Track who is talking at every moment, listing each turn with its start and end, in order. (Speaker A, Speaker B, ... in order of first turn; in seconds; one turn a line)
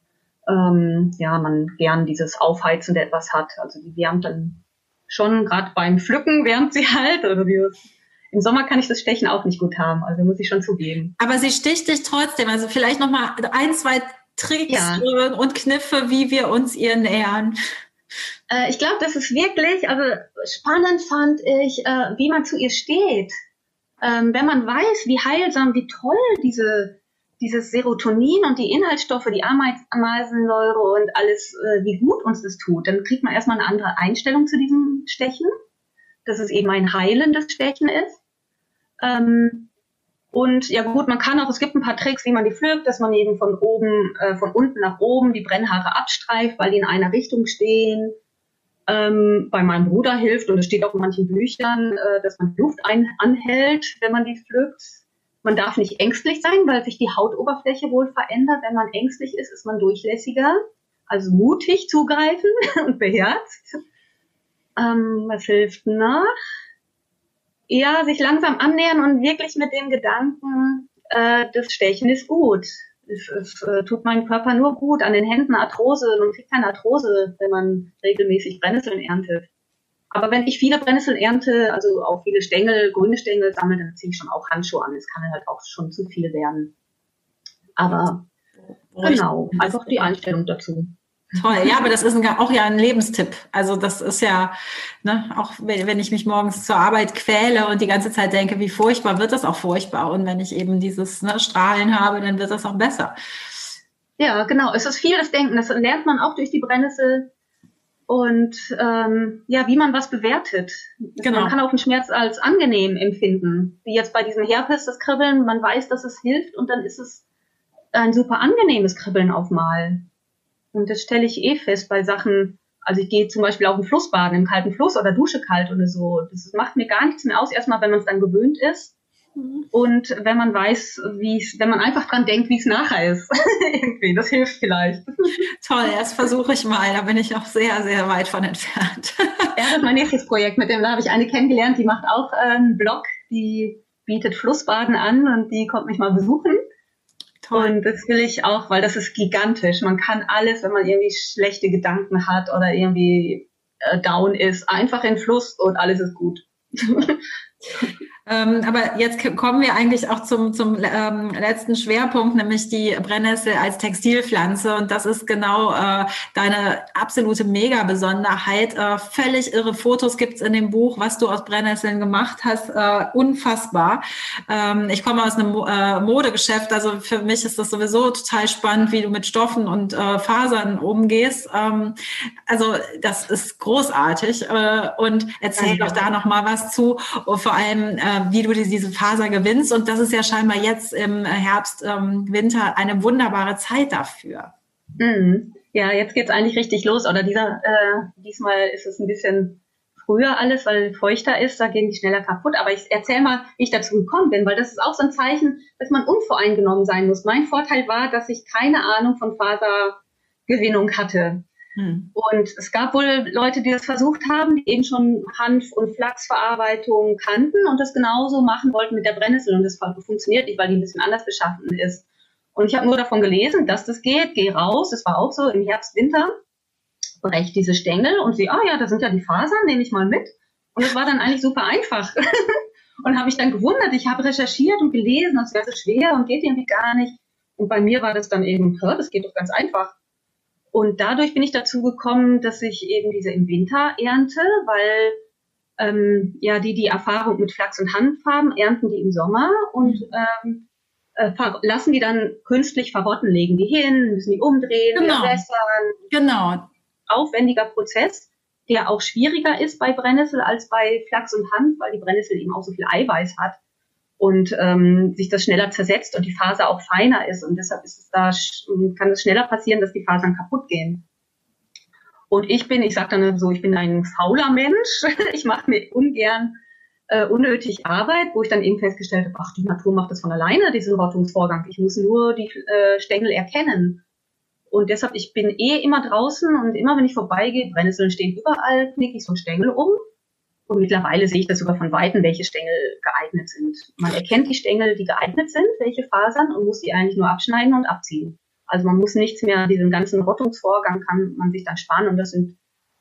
Speaker A: 0.5-7.8
Speaker A: 8.3-11.1
Speaker B: 11.2-17.5
Speaker A: 14.7-15.0
Speaker A: 18.5-23.3
Speaker A: 24.0-35.5
Speaker A: 36.2-38.2
Speaker A: 39.0-39.7
Speaker A: 40.3-48.1
Speaker A: 48.9-60.6
Speaker A: 61.1-63.8
Speaker A: 64.8-66.3
Speaker A: 67.7-79.5
Speaker A: 80.1-86.7
Speaker A: 87.8-88.2
Speaker B: 88.9-90.1
Speaker A: 89.0-91.8
Speaker B: 91.3-103.1
Speaker A: 104.2-107.3
Speaker A: 108.1-117.2
Speaker B: 111.2-111.5
Speaker A: 117.9-120.0
Speaker A: 120.7-128.9
Speaker A: 129.7-135.4
Speaker B: 135.6-139.5
Speaker A: 139.6-146.6
Speaker B: 147.4-147.7
Speaker A: 147.5-157.2
Speaker B: 158.3-181.9
Speaker B: 182.5-194.5
Speaker A: 185.6-186.0
Speaker A: 195.0-211.4
Speaker B: 211.8-212.1
Speaker A: 212.1-226.3
Speaker A: 227.2-239.9
Speaker A: 240.7-245.2
Speaker A: 245.8-250.7
Speaker A: 251.2-256.0
Speaker B: 254.9-255.4
Speaker B: 256.1-256.7
Speaker A: 257.1-263.6
Speaker A: 264.2-271.0
Speaker A: 272.3-276.6
Speaker A: 277.1-284.0
Speaker A: 284.7-290.0
Speaker A: 290.7-302.6